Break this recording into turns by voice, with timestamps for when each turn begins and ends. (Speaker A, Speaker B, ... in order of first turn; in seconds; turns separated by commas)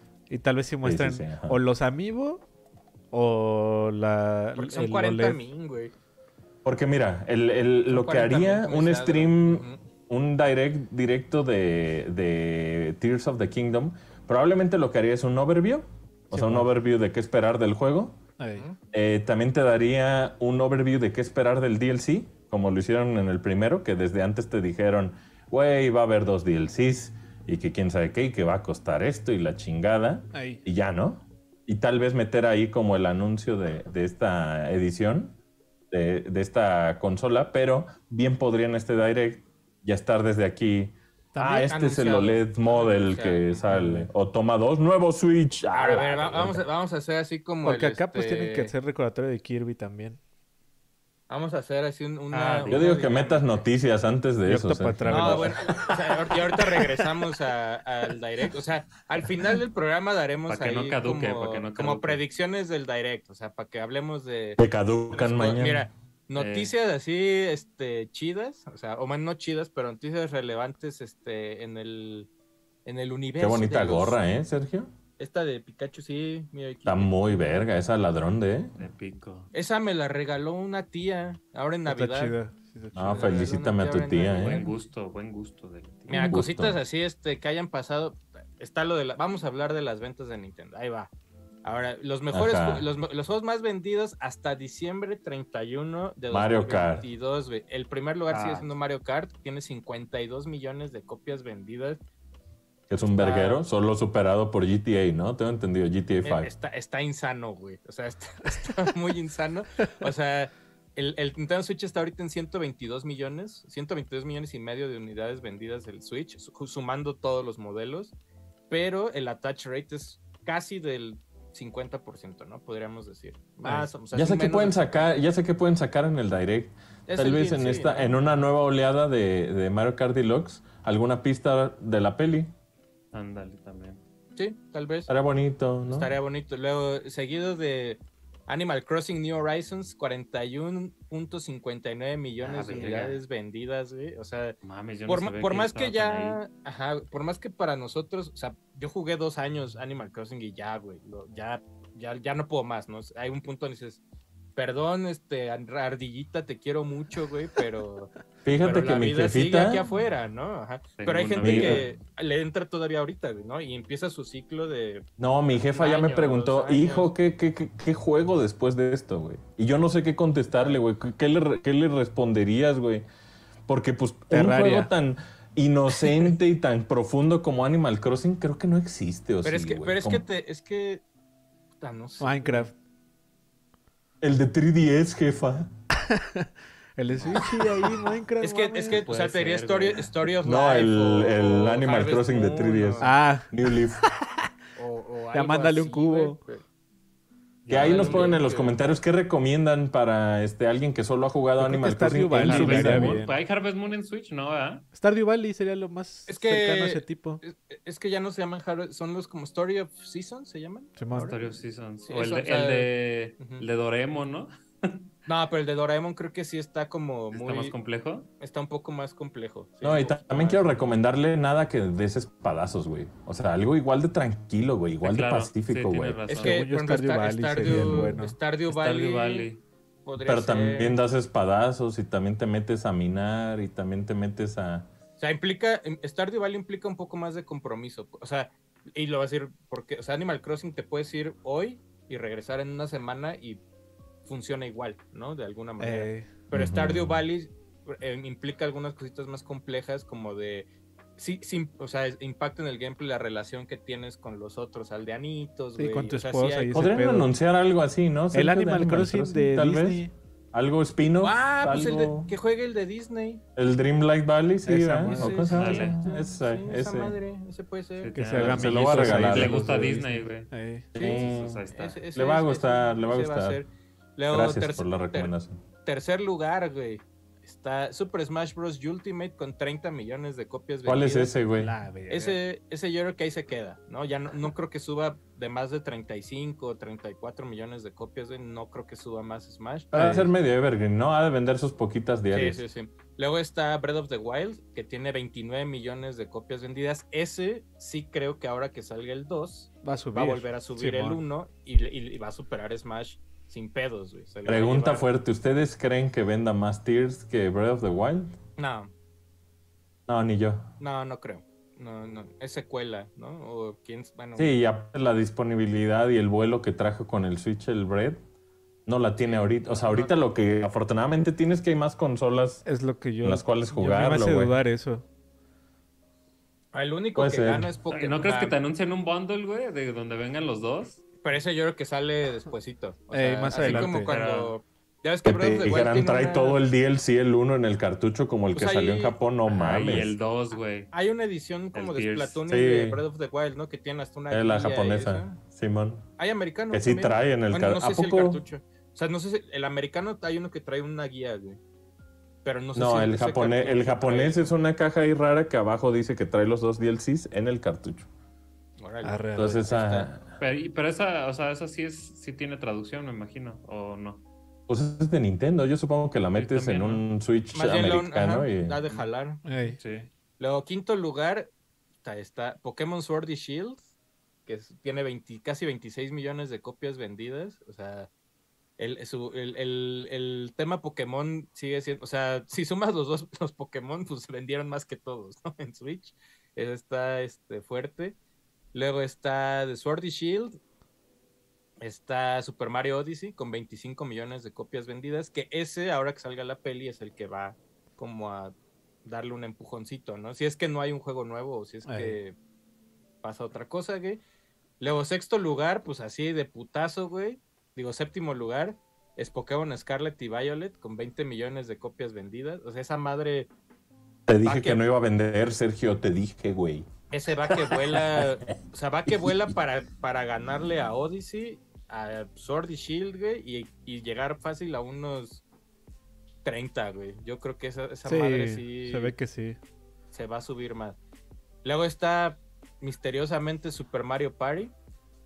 Speaker A: 0.3-2.4, Speaker B: 0.8-1.6, Speaker A: 3.1-5.4, Speaker C: 4.5-5.9, Speaker B: 6.6-18.2, Speaker C: 7.9-9.8, Speaker A: 16.3-16.7, Speaker A: 18.4-18.6, Speaker B: 18.9-35.4, Speaker A: 30.3-30.6, Speaker B: 35.9-46.6, Speaker C: 41.4-43.6, Speaker A: 43.7-44.1, Speaker C: 45.7-48.7, Speaker A: 47.6-50.2, Speaker C: 51.3-53.6, Speaker D: 52.3-52.9, Speaker B: 52.7-55.8, Speaker A: 54.4-55.9, Speaker C: 55.1-64.6, Speaker D: 60.5-62.2, Speaker B: 64.6-65.9, Speaker C: 65.1-72.3, Speaker D: 66.3-66.7, Speaker C: 72.8-74.2, Speaker B: 73.4-74.9, Speaker C: 75.2-77.6, Speaker B: 76.8-78.8, Speaker D: 78.8-79.5, Speaker C: 79.5-82.3, Speaker A: 81.8-83.3, Speaker B: 82.9-84.6, Speaker C: 83.1-84.7, Speaker D: 84.4-86.3, Speaker C: 86.1-91.1, Speaker B: 86.1-86.8, Speaker C: 91.6-102.0, Speaker B: 92.3-92.9, Speaker B: 96.3-97.1, Speaker D: 98.3-98.7, Speaker B: 102.9-106.5, Speaker C: 103.1-103.6, Speaker C: 106.2-118.1, Speaker C: 118.7-125.0, Speaker A: 123.6-123.9, Speaker B: 124.1-132.5, Speaker C: 127.1-128.2, Speaker D: 133.1-134.0, Speaker C: 134.3-135.1, Speaker B: 135.1-136.1, Speaker C: 135.9-154.0, Speaker D: 142.4-143.2, Speaker D: 144.6-146.4, Speaker C: 154.6-167.1, Speaker B: 158.4-159.8, Speaker D: 161.0-161.9, Speaker B: 161.4-161.8, Speaker B: 165.2-173.0, Speaker B: 173.7-180.2, Speaker A: 174.3-174.9, Speaker C: 179.4-181.0, Speaker C: 181.8-182.7, Speaker A: 182.2-182.7, Speaker B: 184.2-185.7, Speaker A: 186.1-190.1, Speaker C: 187.2-193.1, Speaker B: 190.4-194.0, Speaker A: 193.0-194.5, Speaker C: 194.8-196.6, Speaker A: 195.3-196.4, Speaker D: 197.7-198.4, Speaker B: 197.7-203.2, Speaker C: 197.7-198.8, Speaker A: 201.6-203.3, Speaker D: 202.4-204.9, Speaker A: 204.9-207.4, Speaker C: 206.3-211.4, Speaker A: 211.0-211.3, Speaker D: 211.1-215.1, Speaker C: 212.1-213.6, Speaker C: 215.2-217.8, Speaker D: 217.3-218.3, Speaker C: 218.4-220.7, Speaker B: 219.8-226.2, Speaker D: 225.0-226.7, Speaker C: 226.3-229.5, Speaker A: 226.4-228.3, Speaker D: 227.6-228.0, Speaker D: 228.7-229.6, Speaker C: 230.0-231.0, Speaker B: 230.2-234.9, Speaker C: 235.2-243.6, Speaker C: 244.2-256.9, Speaker A: 245.8-246.3, Speaker B: 246.5-247.2, Speaker A: 255.8-257.3, Speaker B: 256.7-262.3, Speaker A: 258.3-260.1, Speaker C: 261.2-263.4, Speaker B: 263.6-267.2, Speaker A: 264.6-265.9, Speaker C: 265.0-268.2, Speaker D: 265.5-266.0, Speaker D: 268.0-272.0, Speaker A: 268.1-270.9, Speaker B: 268.4-269.8, Speaker B: 270.9-273.6, Speaker C: 270.9-275.3, Speaker B: 274.3-275.6, Speaker C: 275.8-281.4, Speaker B: 280.8-281.7, Speaker A: 281.5-282.4, Speaker C: 282.1-289.9, Speaker B: 289.9-292.6, Speaker A: 289.9-290.3, Speaker C: 292.3-305.1, Speaker A: 299.8-301.2, Speaker B: 304.4-308.3, Speaker C: 308.6-308.9, Speaker B: 310.1-310.7, Speaker C: 310.8-314.5, Speaker B: 314.4-318.2, Speaker B: 318.9-322.6, Speaker C: 319.3-320.1, Speaker A: 322.6-325.0, Speaker B: 323.2-324.6, Speaker C: 326.7-328.6, Speaker B: 327.1-327.7, Speaker D: 327.9-331.0, Speaker C: 331.2-336.6, Speaker A: 333.1-334.1, Speaker D: 333.5-334.5, Speaker B: 335.2-340.1, Speaker C: 338.5-339.1, Speaker D: 339.5-340.9, Speaker C: 340.9-345.4, Speaker D: 341.7-342.4, Speaker B: 342.5-343.0, Speaker B: 344.3-346.1, Speaker C: 346.2-351.6, Speaker B: 346.7-348.4, Speaker C: 352.4-354.5, Speaker B: 352.7-358.1, Speaker C: 358.8-360.1, Speaker A: 359.0-359.6, Speaker B: 359.4-360.3, Speaker D: 360.4-364.2, Speaker B: 364.7-368.8, Speaker D: 366.3-367.0, Speaker C: 367.5-369.4, Speaker A: 369.4-369.8, Speaker D: 369.8-370.1, Speaker C: 370.4-371.5, Speaker C: 372.0-373.9, Speaker C: 374.4-378.1, Speaker C: 378.8-388.1, Speaker C: 388.7-390.6, Speaker C: 391.8-402.4, Speaker A: 401.8-402.2, Speaker C: 403.2-404.2, Speaker C: 404.8-413.5, Speaker B: 414.3-416.9, Speaker C: 414.4-414.8, Speaker C: 417.1-425.4, Speaker B: 417.4-418.5, Speaker B: 419.1-419.4, Speaker C: 426.4-429.1, Speaker A: 428.0-429.6, Speaker C: 430.1-431.0, Speaker C: 431.6-434.7